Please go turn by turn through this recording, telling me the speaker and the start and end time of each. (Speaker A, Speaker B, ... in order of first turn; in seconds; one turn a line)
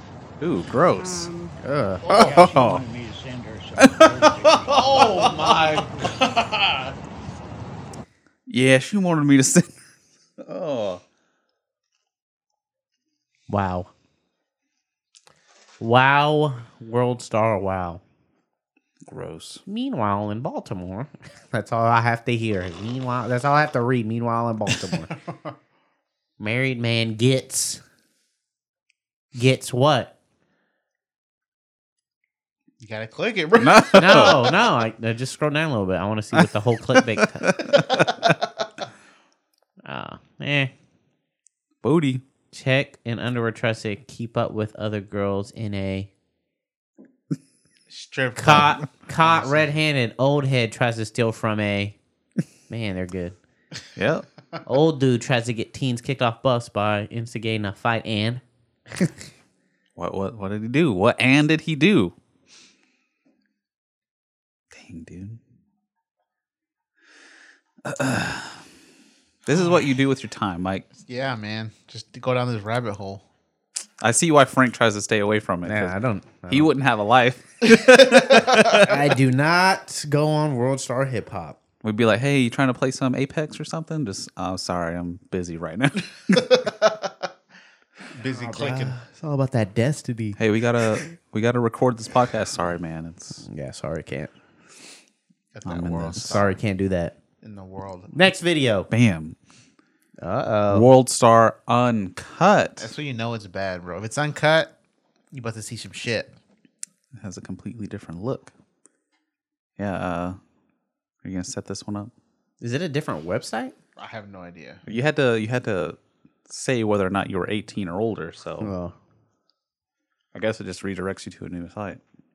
Speaker A: 0.4-1.3
Speaker B: 1.6-2.5
Speaker C: 2.1-2.4
Speaker D: 2.1-6.0
Speaker A: 2.5-2.8
Speaker C: 4.7-6.9
Speaker A: 8.5-9.8
Speaker A: 10.4-11.0
Speaker B: 13.5-13.9
Speaker B: 15.8-18.0
Speaker A: 19.1-19.6
Speaker B: 19.7-25.1
Speaker C: 25.3-25.5
Speaker B: 26.4-27.8
Speaker B: 29.4-30.1
Speaker C: 32.8-34.3
Speaker A: 33.6-34.5
Speaker B: 34.0-37.6
Speaker A: 37.5-38.3
Speaker B: 39.8-40.7
Speaker A: 41.8-42.2
Speaker B: 42.5-46.1
Speaker C: 47.9-49.7
Speaker B: 48.4-52.0
Speaker B: 52.7-53.4
Speaker A: 54.0-54.3
Speaker B: 54.7-59.3
Speaker A: 60.0-62.1
Speaker A: 64.7-65.4
Speaker A: 67.8-68.6
Speaker A: 69.5-70.9
Speaker C: 71.0-73.2
Speaker A: 74.0-79.0
Speaker B: 75.7-76.7
Speaker B: 78.7-81.6
Speaker A: 81.8-86.6
Speaker C: 88.2-89.0
Speaker B: 88.3-90.4
Speaker A: 90.4-93.4
Speaker B: 93.4-94.3
Speaker C: 95.5-96.5
Speaker A: 95.7-96.4
Speaker B: 96.2-97.2
Speaker C: 97.4-98.2
Speaker B: 98.1-98.9
Speaker A: 98.9-99.4
Speaker B: 100.2-100.9
Speaker A: 100.7-102.9
Speaker C: 102.8-104.7
Speaker C: 105.3-106.3
Speaker A: 107.2-108.5
Speaker A: 109.8-110.4
Speaker A: 111.2-112.1
Speaker B: 112.6-113.8
Speaker C: 114.0-114.8
Speaker A: 114.9-118.7
Speaker B: 118.6-119.0
Speaker A: 120.3-122.0